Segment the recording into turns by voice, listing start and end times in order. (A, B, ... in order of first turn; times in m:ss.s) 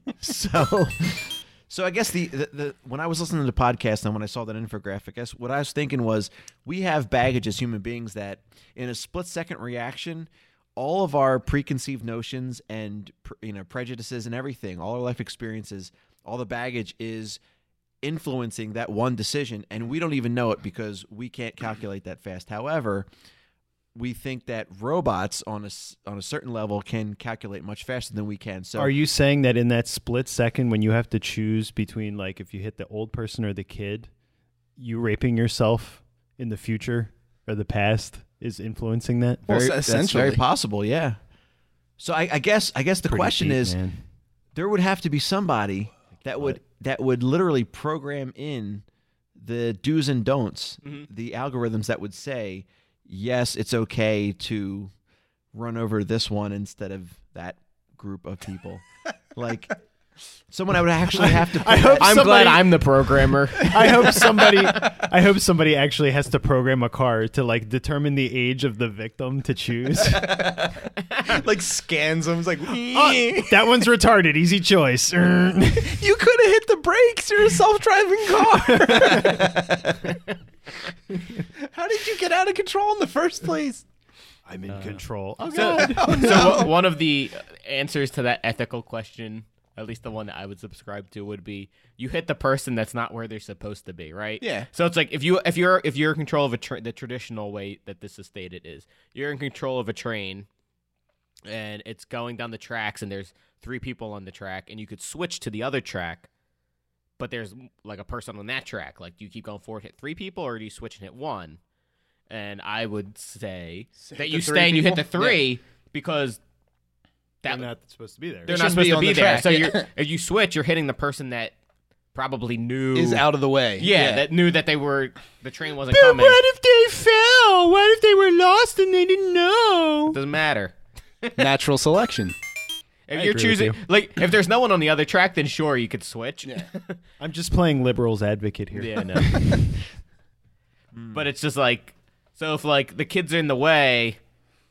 0:00.2-0:17.4 A
0:18.0-0:23.1 A
0:24.0-0:28.9 A
0:28.8-0:34.1 B
0:34.8-0:39.5 B
0:39.5-0:40.4 C
0:39.5-0:41.2 A
0:42.0-0:43.8 A
0:43.1-0:44.0 B
0:44.6-0:48.8 A
0:49.4-0:54.9 A
0:55.5-0:58.8 A
0:59.4-0:59.8 A
1:00.5-1:02.8 A
1:01.2-1:02.6 B
1:02.0-1:04.2 D
1:03.6-1:10.4 B
1:11.2-1:13.7 C
1:12.9-1:16.0 B
1:15.8-1:19.7 C
1:21.6-1:23.8 C
1:24.5-1:26.6 B
1:24.7-1:25.0 D
1:25.5-1:40.5 D
1:25.6-1:26.7 C
1:34.4-1:34.7 C
1:41.5-1:46.3 D
1:47.2-1:51.6 D
1:52.3-1:56.4 D
1:54.0-1:55.5 C
1:57.4-1:57.7 D
1:57.5-1:58.6 B
1:58.5-1:59.9 C
1:58.5-2:01.6 D
2:02.1-2:03.3 D
2:03.0-2:04.2 C
2:03.8-2:06.4 D
2:05.9-2:10.2 B
2:10.1-2:11.5 D
2:11.4-2:12.4 C
2:13.1-2:17.0 D
2:13.1-2:13.8 B
2:17.2-2:19.7 B
2:18.8-2:19.5 D
2:20.9-2:21.2 A
2:21.1-2:24.2 D